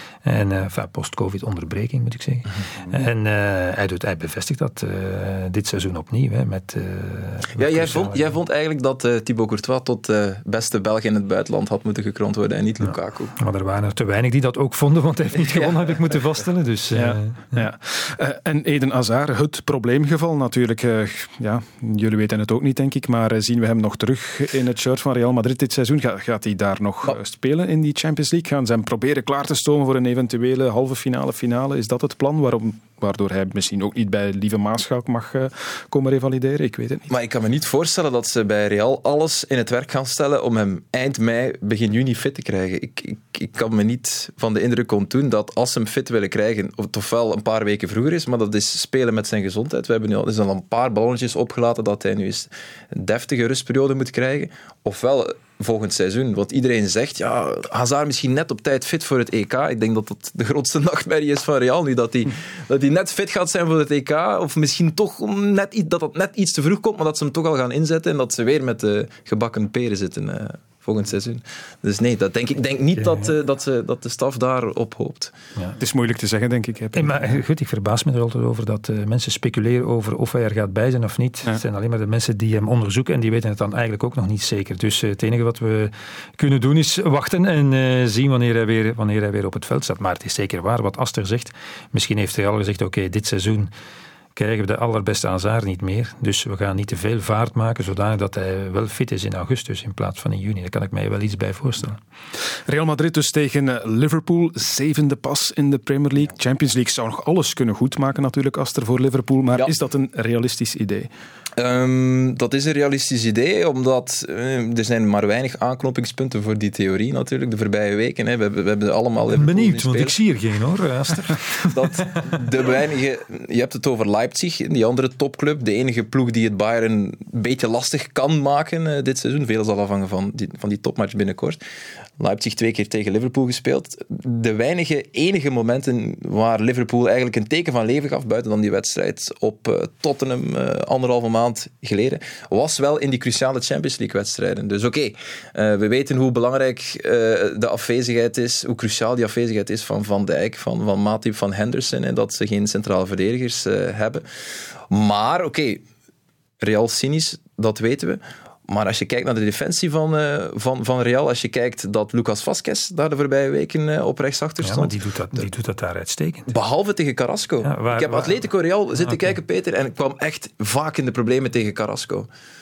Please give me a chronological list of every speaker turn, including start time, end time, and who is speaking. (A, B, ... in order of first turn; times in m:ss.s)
0:00.2-0:08.3 A
0:07.6-0:13.3 B
0:12.8-0:17.6 A
0:15.4-0:16.0 B
0:16.9-0:37.1 C
0:37.1-1:15.3 B
1:13.0-1:13.3 A
1:15.8-1:17.2 C
1:16.9-1:33.7 A
1:34.4-1:42.0 A
1:42.6-1:51.1 C
1:51.6-2:00.2 B
1:59.3-2:02.2 A
2:01.7-2:11.6 B
2:12.2-2:34.2 B
2:34.9-2:35.8 B
2:36.6-2:45.4 B
2:44.6-2:46.5 A
2:46.5-2:52.3 B
2:47.6-2:48.5 A
2:49.0-2:49.4 A